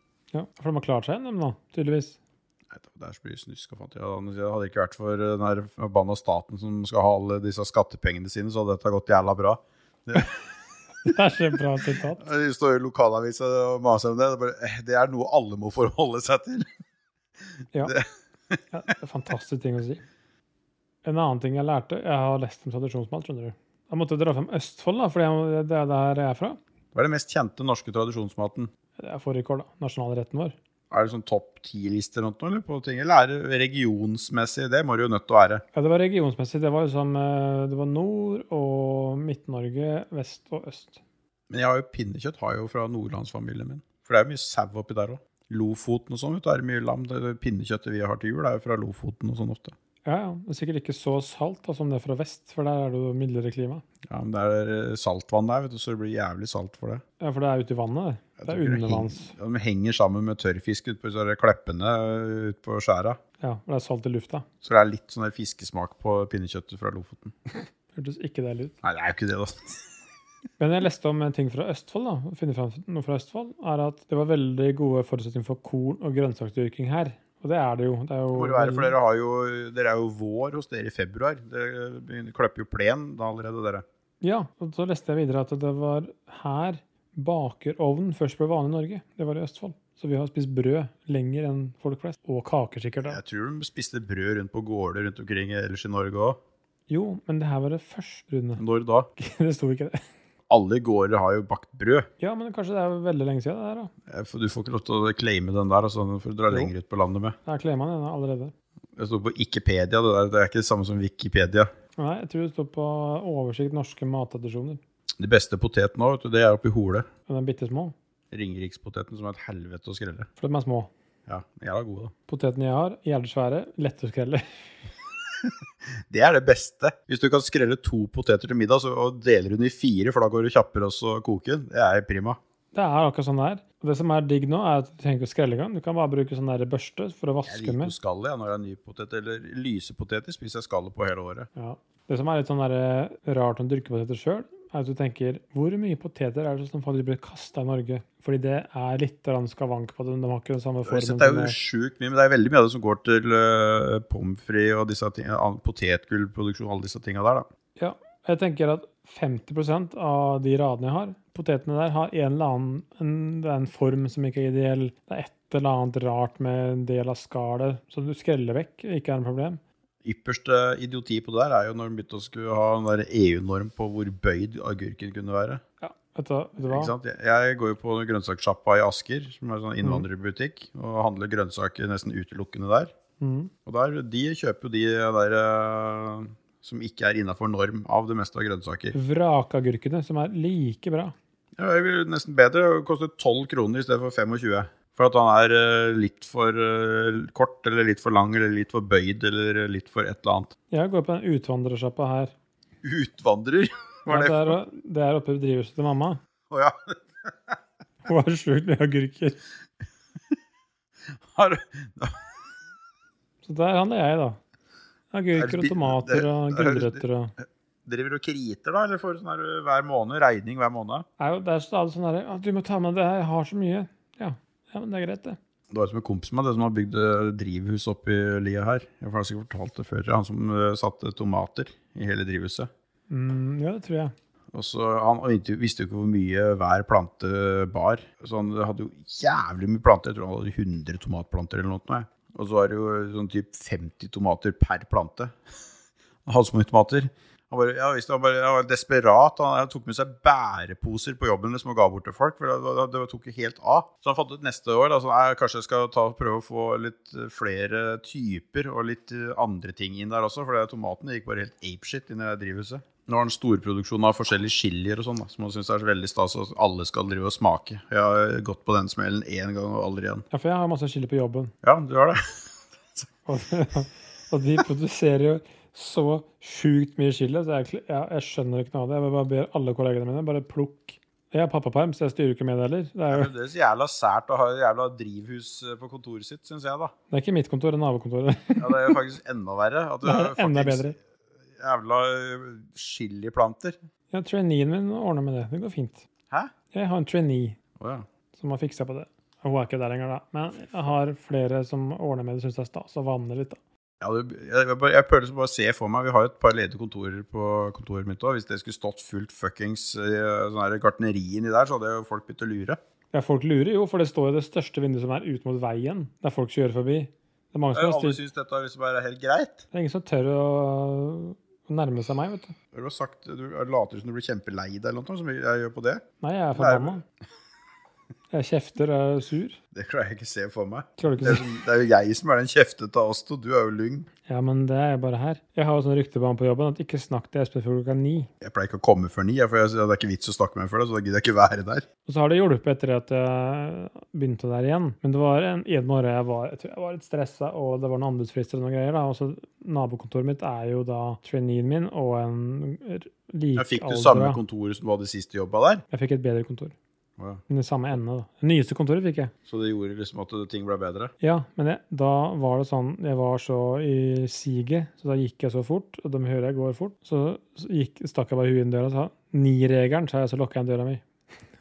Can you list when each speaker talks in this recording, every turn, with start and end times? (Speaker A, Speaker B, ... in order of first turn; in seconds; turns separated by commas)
Speaker A: 0.3-2.2, Speaker B: 2.7-10.4, Speaker A: 11.0-12.3, Speaker B: 12.2-16.7, Speaker B: 17.8-18.6, Speaker A: 18.7-20.0, Speaker A: 21.0-26.6, Speaker B: 26.9-28.7, Speaker A: 29.0-30.5, Speaker B: 30.9-35.6, Speaker A: 35.7-41.0, Speaker B: 41.5-49.7, Speaker A: 50.0-53.8, Speaker B: 54.1-57.0, Speaker A: 57.2-59.3, Speaker B: 58.4-63.2, Speaker A: 63.4-64.5, Speaker B: 64.6-67.3, Speaker A: 67.9-68.8, Speaker B: 68.8-69.8, Speaker A: 70.6-78.9, Speaker B: 78.3-83.8, Speaker A: 84.2-93.2, Speaker B: 93.0-96.4, Speaker A: 96.9-98.6, Speaker B: 98.6-99.1, Speaker A: 99.2-100.0, Speaker B: 100.5-102.1, Speaker A: 102.2-103.9, Speaker B: 104.1-107.4, Speaker A: 107.5-108.5, Speaker B: 109.0-111.7, Speaker A: 112.0-114.8, Speaker B: 115.2-117.1, Speaker A: 117.3-117.9, Speaker B: 118.3-120.3, Speaker A: 120.4-120.9, Speaker B: 121.3-122.1, Speaker A: 122.3-124.4, Speaker B: 126.1-132.4, Speaker A: 132.7-137.9, Speaker B: 137.4-141.5, Speaker A: 141.6-151.6, Speaker B: 150.8-157.5, Speaker A: 157.8-169.6, Speaker B: 170.0-175.6, Speaker A: 175.8-176.9, Speaker B: 176.7-182.9, Speaker A: 183.2-183.5, Speaker B: 183.7-188.9, Speaker A: 188.9-191.1, Speaker B: 191.6-200.5, Speaker A: 200.7-202.3, Speaker B: 202.8-204.6, Speaker A: 204.1-206.2, Speaker B: 206.5-207.6, Speaker A: 208.0-209.4, Speaker B: 211.3-212.1, Speaker A: 213.4-214.4, Speaker A: 215.1-217.3, Speaker B: 215.3-221.1, Speaker A: 221.2-225.4, Speaker B: 225.7-232.7, Speaker A: 233.1-234.1, Speaker B: 234.5-245.3, Speaker B: 246.2-270.2, Speaker A: 270.3-271.5, Speaker B: 271.6-272.2, Speaker A: 273.3-283.3, Speaker B: 283.1-286.9, Speaker A: 287.1-289.0, Speaker B: 288.6-291.0, Speaker A: 290.0-290.9, Speaker B: 291.6-293.8, Speaker A: 294.1-296.1, Speaker A: 296.7-297.6, Speaker B: 297.8-298.1, Speaker A: 298.3-303.6, Speaker B: 304.0-312.8, Speaker A: 313.1-318.2, Speaker B: 317.7-319.6, Speaker A: 319.7-322.5, Speaker B: 322.7-326.0, Speaker A: 326.2-327.0, Speaker B: 326.5-327.0, Speaker A: 328.3-329.6, Speaker B: 329.7-334.1, Speaker A: 331.0-331.6, Speaker A: 334.2-338.3, Speaker B: 338.4-341.8, Speaker A: 342.1-354.4, Speaker B: 353.5-355.8, Speaker A: 355.9-356.7, Speaker A: 357.5-359.3, Speaker B: 359.4-361.1, Speaker A: 361.2-371.0